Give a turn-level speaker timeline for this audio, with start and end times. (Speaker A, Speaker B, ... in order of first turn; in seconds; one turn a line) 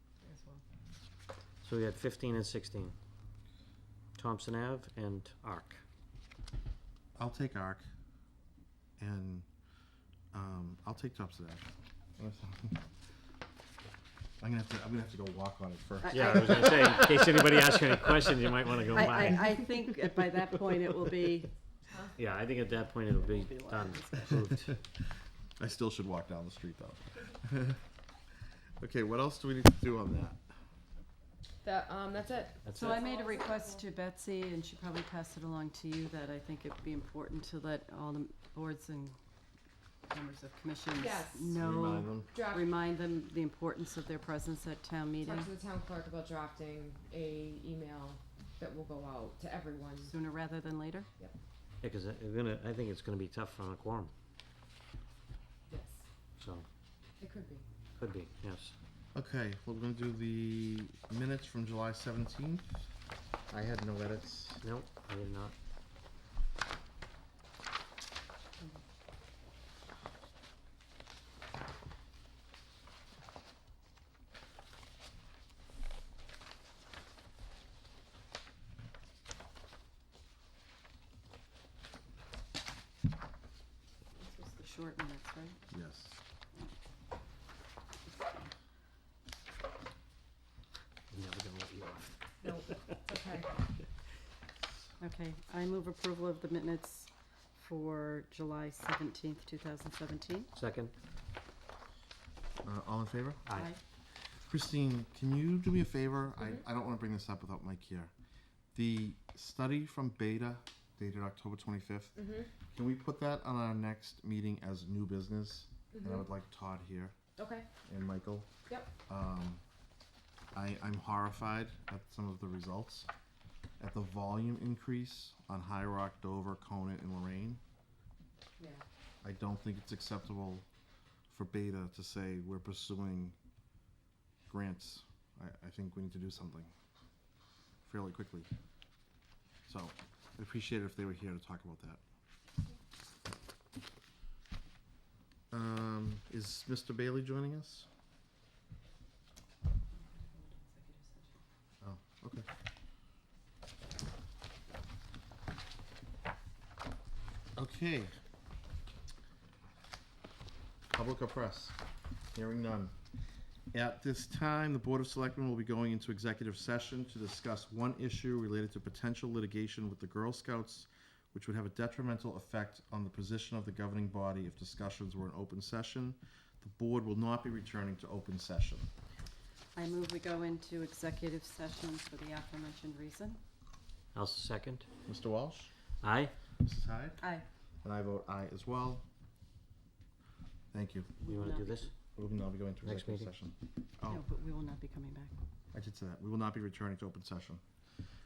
Speaker A: 0.2-0.6
Speaker B: 1.6-3.0
Speaker B: 4.2-5.8
Speaker C: 7.2-7.8
Speaker C: 9.0-9.4
Speaker C: 10.3-11.7
Speaker C: 12.2-12.8
Speaker C: 14.4-17.3
Speaker D: 16.0-17.1
Speaker B: 16.1-19.6
Speaker D: 18.9-21.5
Speaker B: 22.2-24.7
Speaker D: 23.2-24.3
Speaker C: 25.6-27.8
Speaker C: 28.8-30.4
Speaker A: 31.6-33.9
Speaker B: 32.6-33.0
Speaker D: 32.8-39.2
Speaker D: 40.1-45.5
Speaker A: 40.9-41.6
Speaker C: 41.5-42.3
Speaker A: 42.3-42.8
Speaker A: 45.2-50.1
Speaker D: 50.0-51.1
Speaker B: 51.8-54.1
Speaker A: 55.7-56.1
Speaker B: 56.4-56.7
Speaker A: 57.2-57.7
Speaker B: 58.0-58.8
Speaker C: 59.1-62.8
Speaker C: 63.5-64.6
Speaker B: 64.6-65.5
Speaker D: 84.2-85.6
Speaker C: 85.7-86.2
Speaker D: 88.0-88.5
Speaker B: 91.1-92.8
Speaker A: 92.4-93.6
Speaker D: 95.0-100.5
Speaker B: 100.5-100.9
Speaker C: 102.6-103.4
Speaker B: 103.5-103.7
Speaker C: 104.4-108.1
Speaker C: 108.8-117.2
Speaker A: 112.2-112.5
Speaker A: 115.9-116.3
Speaker A: 117.4-117.7
Speaker C: 117.8-118.5
Speaker A: 118.7-118.9
Speaker C: 119.1-119.6
Speaker C: 120.5-123.1
Speaker C: 123.8-127.6
Speaker A: 128.6-128.8
Speaker C: 129.2-130.7
Speaker C: 131.3-133.4
Speaker C: 134.5-136.7
Speaker C: 137.8-138.5
Speaker C: 139.7-142.0
Speaker C: 145.5-147.9
Speaker D: 150.0-151.4
Speaker C: 151.8-152.5
Speaker C: 157.6-158.1
Speaker C: 160.9-161.8
Speaker C: 162.3-162.9
Speaker C: 163.7-178.9
Speaker D: 179.8-183.4
Speaker B: 184.1-184.9
Speaker C: 185.1-185.7
Speaker B: 186.0-186.3
Speaker C: 186.6-187.2
Speaker C: 187.8-189.0
Speaker C: 190.7-191.2
Speaker D: 191.2-191.9
Speaker B: 191.3-191.9
Speaker C: 192.2-194.2
Speaker B: 192.8-193.3
Speaker D: 194.1-195.3
Speaker C: 195.7-197.6